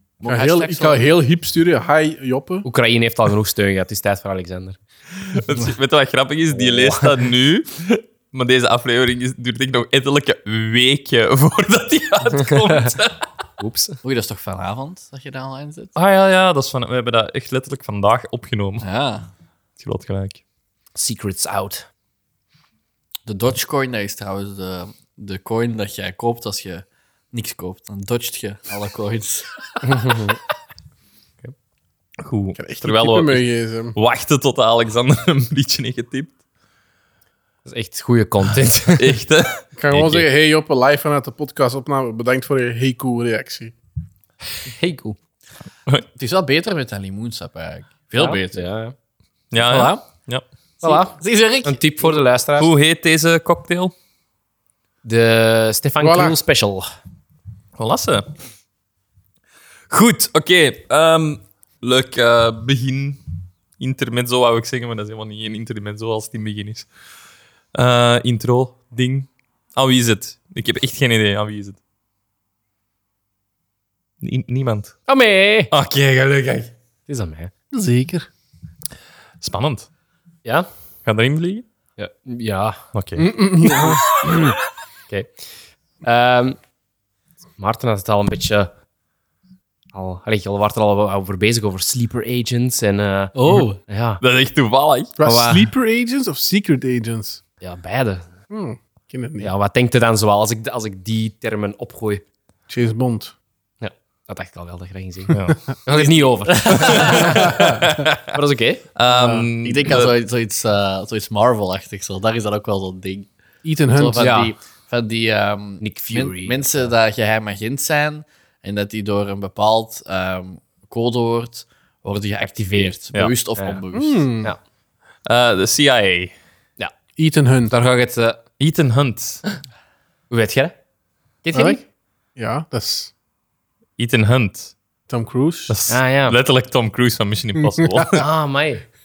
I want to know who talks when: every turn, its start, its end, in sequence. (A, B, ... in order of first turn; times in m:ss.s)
0:00.2-0:00.6 A
0:00.3-0:01.0 B
0:00.3-0:02.7 C
0:02.6-0:04.8 B
0:05.3-0:13.3 D
0:06.5-0:07.1 B
0:13.6-0:14.0 B
0:14.0-0:15.9 A
0:16.0-0:18.9 D
0:18.8-0:19.3 A
0:19.8-0:20.4 D
0:21.0-0:21.9 B
0:23.2-0:29.5 A
0:29.8-0:30.4 B
0:32.2-0:36.4 D
0:32.6-0:34.0 C
0:37.6-0:39.2 B
0:38.9-0:40.3 D
0:39.8-0:43.8 C
0:44.6-0:45.2 B
0:46.2-0:48.7 A
0:48.2-0:49.0 B
0:49.5-0:50.4 D
0:49.6-0:50.0 A
0:50.8-0:52.2 A
0:50.8-0:52.7 B
0:52.6-0:53.9 D
0:55.0-0:56.9 B
0:56.0-0:56.4 C
0:57.8-0:58.3 D
0:59.9-1:03.2 D
1:03.8-1:06.9 D
1:07.7-1:11.8 D
1:14.2-1:15.0 D
1:15.1-1:15.7 B
1:15.7-1:16.7 D
1:17.1-1:17.5 B
1:17.7-1:18.3 C
1:19.4-1:19.9 D
1:21.1-1:21.6 D
1:22.0-1:22.8 B
1:22.9-1:24.0 D
1:23.2-1:24.2 C
1:24.1-1:24.6 B
1:26.0-1:26.6 B
1:27.6-1:28.7 B
1:29.9-1:34.2 B
1:33.4-1:33.8 A
1:34.2-1:35.2 D
1:35.2-1:37.4 C
1:35.2-1:35.7 B
1:37.6-1:38.3 B
1:38.5-1:39.5 C
1:39.4-1:42.2 B
1:42.7-1:43.3 C
1:43.8-1:48.8 B
1:45.3-1:45.6 D
1:46.4-1:47.6 A
1:46.8-1:48.2 D
1:47.4-1:47.8 C
1:49.0-1:50.1 D
1:49.1-1:49.5 C
1:49.6-1:53.3 A
1:53.6-1:54.3 C
1:53.9-2:04.3 A
1:54.2-1:54.6 B
1:55.8-1:56.9 B
2:02.4-2:03.0 B
2:03.6-2:03.8 B
2:03.9-2:04.5 C
2:05.3-2:06.3 D
2:07.2-2:07.7 C
2:07.7-2:08.4 B
2:08.6-2:09.4 D
2:10.3-2:10.8 B
2:11.4-2:11.8 B
2:11.5-2:11.8 C
2:12.4-2:13.1 C
2:14.0-2:14.8 D
2:15.1-2:15.7 C
2:15.7-2:18.2 D
2:15.9-2:16.4 B
2:18.1-2:18.8 B